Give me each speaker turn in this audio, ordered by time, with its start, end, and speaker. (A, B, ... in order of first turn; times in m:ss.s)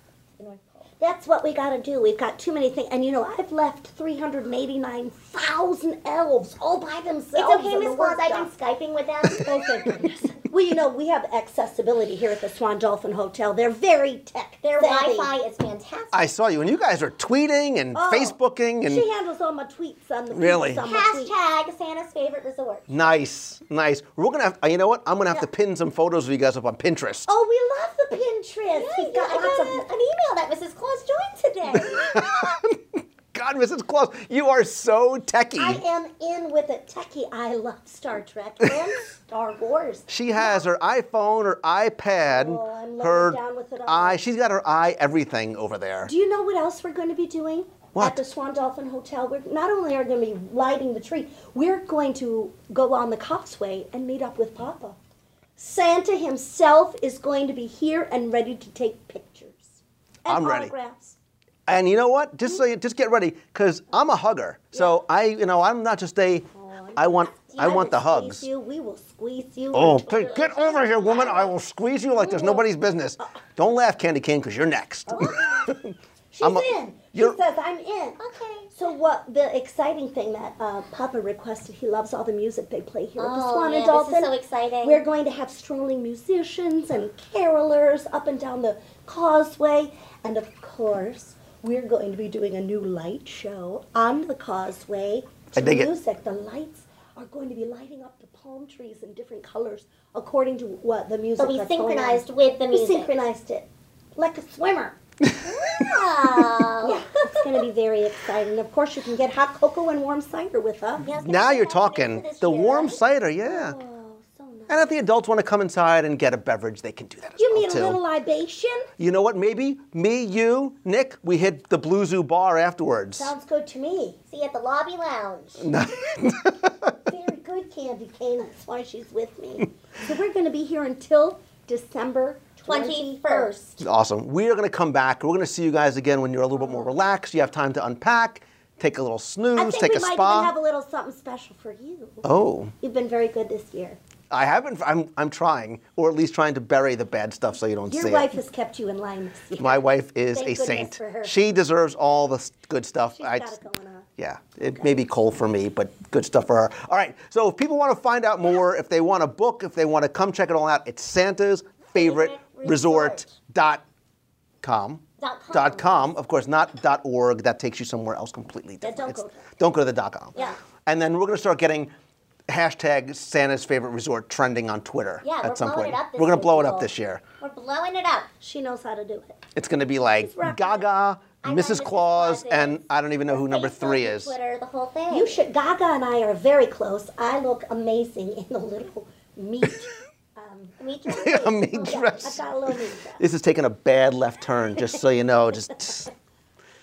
0:00.4-0:00.8 A
0:01.0-0:08.5 B
0:07.4-0:09.5 A
0:09.4-0:15.3 B
0:14.6-0:16.2 A
0:16.1-0:19.0 C
0:17.9-0:21.3 B
0:20.3-0:20.9 C
0:20.8-0:22.9 A
0:22.9-0:27.3 C
0:27.3-0:29.8 B
0:28.8-0:32.3 A
0:31.9-0:35.8 C
0:35.6-0:40.7 B
0:40.1-0:46.1 C
0:42.3-0:44.2 B
0:46.0-0:55.0 B
0:47.9-0:48.2 C
0:55.6-1:01.2 B
1:00.3-1:00.7 C
1:01.7-1:08.5 C
1:04.7-1:05.0 B
1:06.6-1:11.2 B
1:09.7-1:17.4 C
1:10.1-1:11.5 A
1:12.2-1:12.7 B
1:15.1-1:15.6 B
1:16.3-1:18.2 B
1:18.2-1:18.8 A
1:18.7-1:24.3 B
1:23.2-1:25.0 A
1:24.8-1:45.0 B
1:35.6-1:35.9 C
1:41.4-1:43.1 A
1:45.3-1:45.9 C
1:45.4-1:47.0 A
1:46.8-1:51.1 B
1:51.0-1:53.0 A
1:51.2-1:53.8 C
1:53.4-1:54.9 B
1:54.7-1:58.0 C
1:57.4-1:58.9 B
1:59.0-2:03.3 C
2:03.2-2:04.2 B
2:04.3-2:05.6 A
2:05.6-2:06.7 C
2:07.1-2:13.8 B
2:12.6-2:13.5 A
2:13.8-2:20.5 C
2:19.6-2:22.2 B
2:22.2-2:22.7 C
2:22.8-2:24.0 B
2:24.3-2:28.4 C
2:27.9-2:31.3 B
2:29.6-2:33.6 C
2:33.2-2:34.1 B
2:34.2-2:43.8 C
2:42.0-2:43.2 A
2:44.6-2:51.9 C
2:45.2-2:46.1 A
2:48.8-2:49.4 B
2:52.5-2:57.2 C
2:55.2-2:58.3 A
2:58.4-2:59.4 B
2:59.6-3:04.4 C
3:00.1-3:00.9 B
3:01.4-3:05.4 A
3:05.1-3:11.3 B
3:10.8-3:12.4 A
3:11.1-3:16.1 C
3:11.8-3:13.2 B